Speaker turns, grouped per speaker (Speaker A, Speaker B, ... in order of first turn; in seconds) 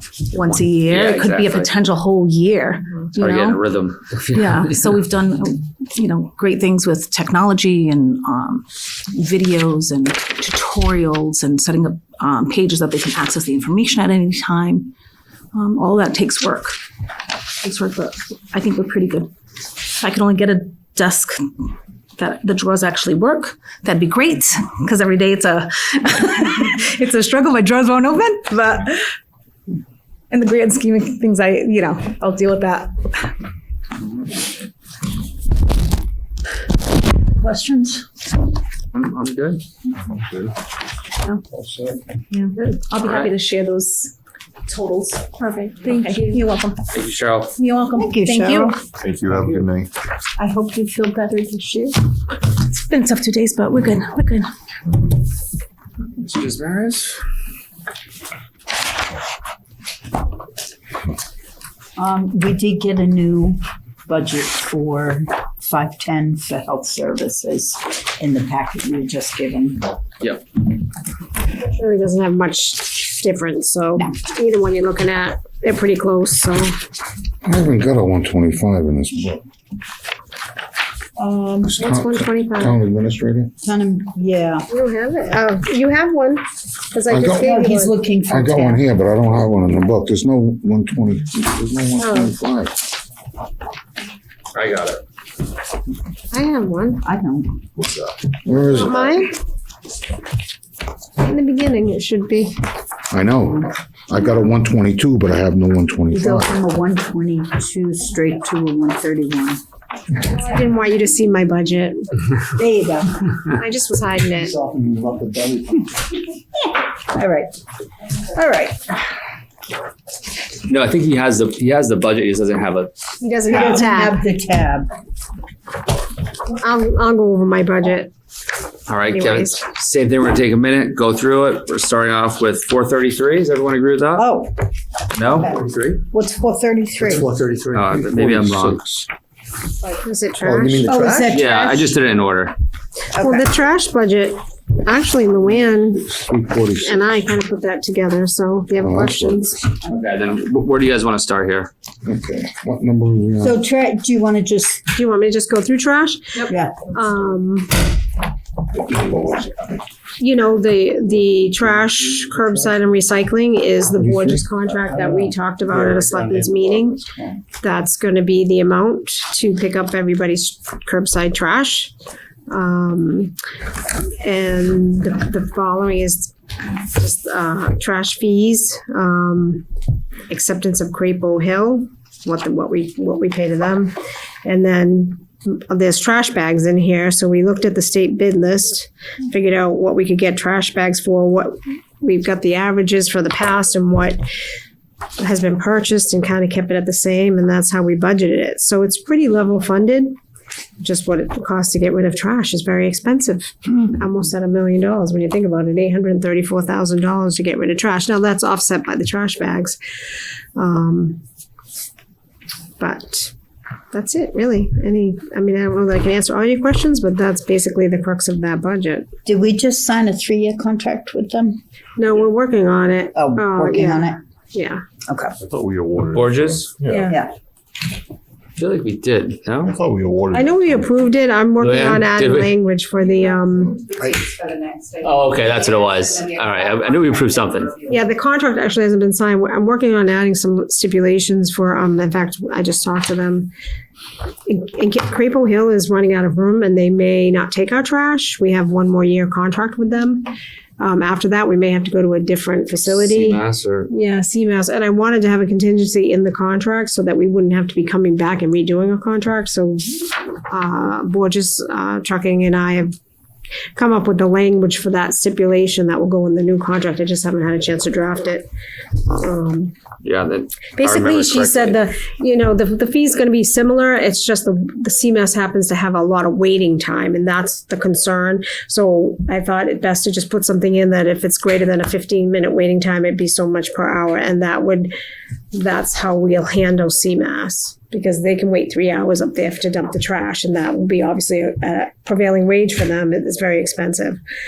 Speaker A: 0.3-3.6, 4.3-14.9, 15.5-16.8, 17.6-21.5, 22.2-29.1, 30.3-33.3, 42.3-44.1, 44.7-46.9, 47.6-48.7, 50.7-51.9, 52.4-54.5
Speaker B: 0.3-1.7, 3.2-4.8, 38.9-39.6, 43.0-43.3, 46.9-47.5, 56.2-57.2, 94.5-95.0, 120.7-122.9, 128.9-134.2, 135.1-136.0, 137.7-138.8, 141.3-142.5, 149.8-151.7, 226.1-226.7, 228.6-229.8, 231.6-232.5, 235.0-237.8, 252.9-253.9, 270.0-271.8
Speaker C: 37.4-38.0, 48.0-48.8, 50.4-51.8, 62.0-69.9, 81.2-81.8, 83.6-84.7, 87.4-88.8, 97.0-97.6, 106.1-109.6, 112.5-113.4, 117.1-117.5, 118.3-118.9, 123.5-124.9, 134.2-134.5, 136.1-137.3, 140.8-141.9, 143.1-143.5, 153.4-154.9, 156.5-156.9, 219.2-221.6, 223.2-224.2, 225.1-225.4, 227.0-227.3
Speaker D: 45.4-45.8, 71.6-76.8, 81.8-82.8, 84.7-88.0, 92.0-92.3, 96.3-97.0, 98.6-99.3, 101.2-102.5, 110.3-112.2, 113.5-114.7, 123.2-124.2, 126.5-128.1, 129.1-129.6, 139.8-140.9, 143.2-146.1, 146.8-149.6, 154.9-157.8, 160.2-171.9, 172.5-173.3, 174.2-176.3, 176.9-179.7, 180.3-194.2, 195.2-200.1, 200.8-209.8, 210.6-211.2, 212.8-213.3, 213.9-219.1, 222.0-224.8, 226.9-227.2, 230.3-233.9, 237.8-243.5, 244.5-262.9, 263.8-268.5, 269.1-269.7, 270.8-284.9, 285.5-294.2
Speaker E: 49.0-49.8, 114.7-115.8, 137.4-137.8, 140.8-141.2, 165.9-166.5, 225.5-227.0, 229.7-230.8
Speaker F: 77.4-79.4, 81.8-83.5, 87.1-87.5, 88.3-92.8, 98.4-99.1, 103.1-106.5, 137.9-139.1, 140.4-141.3, 146.0-147.2, 148.8-149.5, 152.0-153.6, 158.9-159.5, 164.0-164.5